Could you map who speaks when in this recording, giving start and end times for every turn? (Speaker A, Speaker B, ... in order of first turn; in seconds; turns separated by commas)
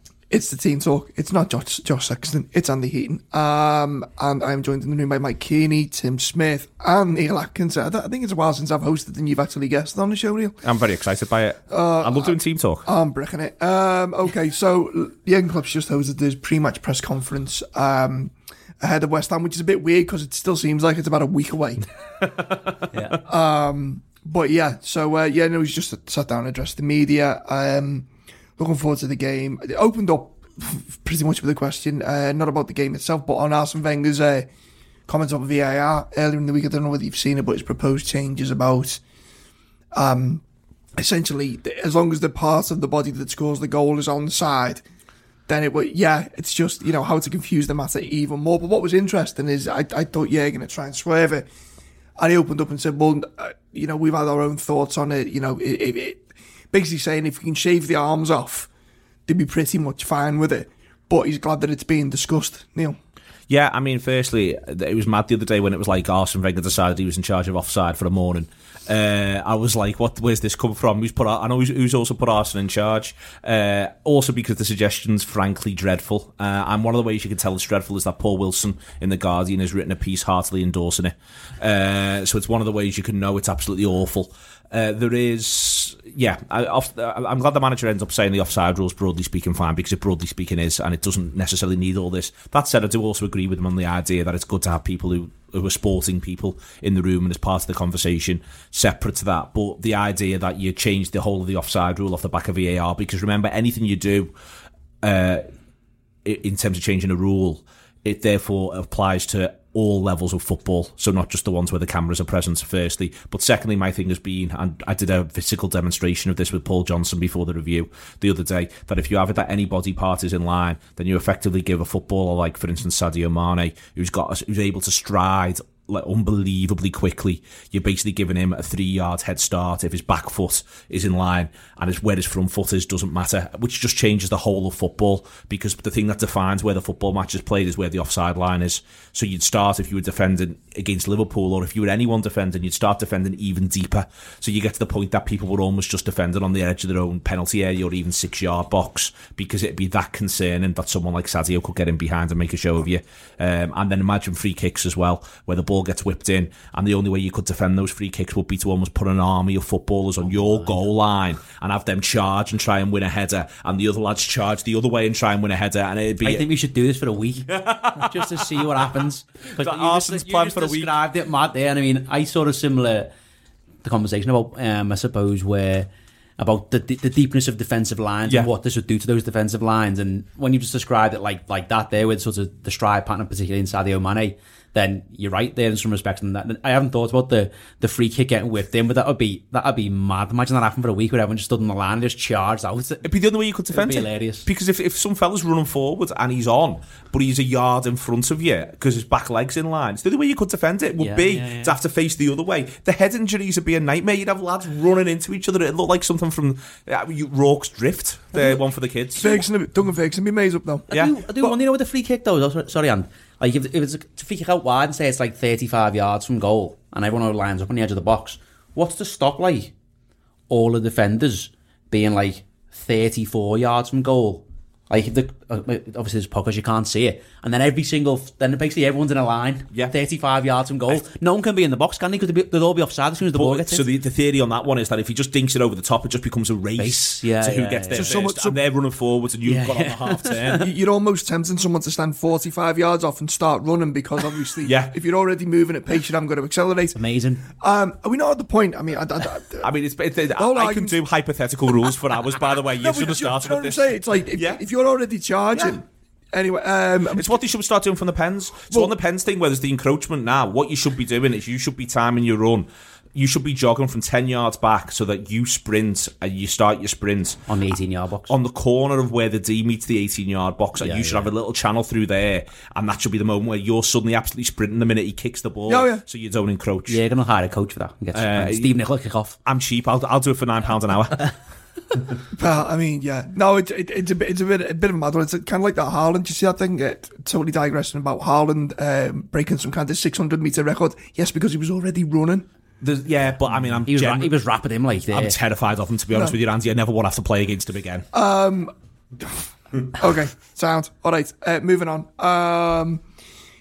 Speaker A: 0.3-10.6, Speaker B: 10.6-12.9, Speaker A: 11.7-21.9, Speaker B: 22.2-22.9, Speaker C: 22.9-23.2, Speaker A: 23.3-34.5, Speaker A: 35.1-39.0, Speaker A: 39.9-40.4, Speaker A: 41.0-44.8, Speaker A: 45.5-51.5, Speaker A: 52.2-58.7, Speaker A: 59.3-63.0, Speaker B: 63.5-104.3, Speaker B: 105.0-105.5, Speaker B: 106.2-166.4, Speaker C: 160.2-160.9, Speaker C: 166.2-173.1, Speaker B: 167.5-168.7, Speaker B: 169.5-170.9, Speaker C: 173.8-193.1, Speaker B: 193.0-209.4, Speaker C: 193.7-194.5, Speaker C: 201.0-201.8, Speaker A: 209.2-210.9, Speaker C: 210.9-219.7, Speaker C: 220.5-233.8, Speaker B: 233.4-240.6, Speaker C: 236.8-238.1, Speaker A: 237.9-238.6, Speaker C: 239.4-240.7, Speaker A: 240.6-247.0, Speaker B: 244.6-244.9, Speaker C: 246.9-247.5, Speaker A: 247.5-249.7, Speaker B: 249.6-254.6, Speaker A: 250.4-251.0, Speaker A: 252.8-257.4, Speaker B: 255.5-255.8, Speaker B: 257.1-267.5, Speaker C: 267.5-268.3, Speaker B: 268.3-277.0, Speaker C: 270.8-271.3, Speaker A: 275.7-276.0, Speaker C: 276.9-279.4, Speaker B: 278.1-278.7, Speaker B: 279.4-281.3, Speaker A: 282.4-292.5, Speaker B: 292.8-294.3, Speaker C: 293.9-295.4, Speaker B: 295.1-298.1, Speaker A: 298.1-298.7, Speaker A: 299.9-303.0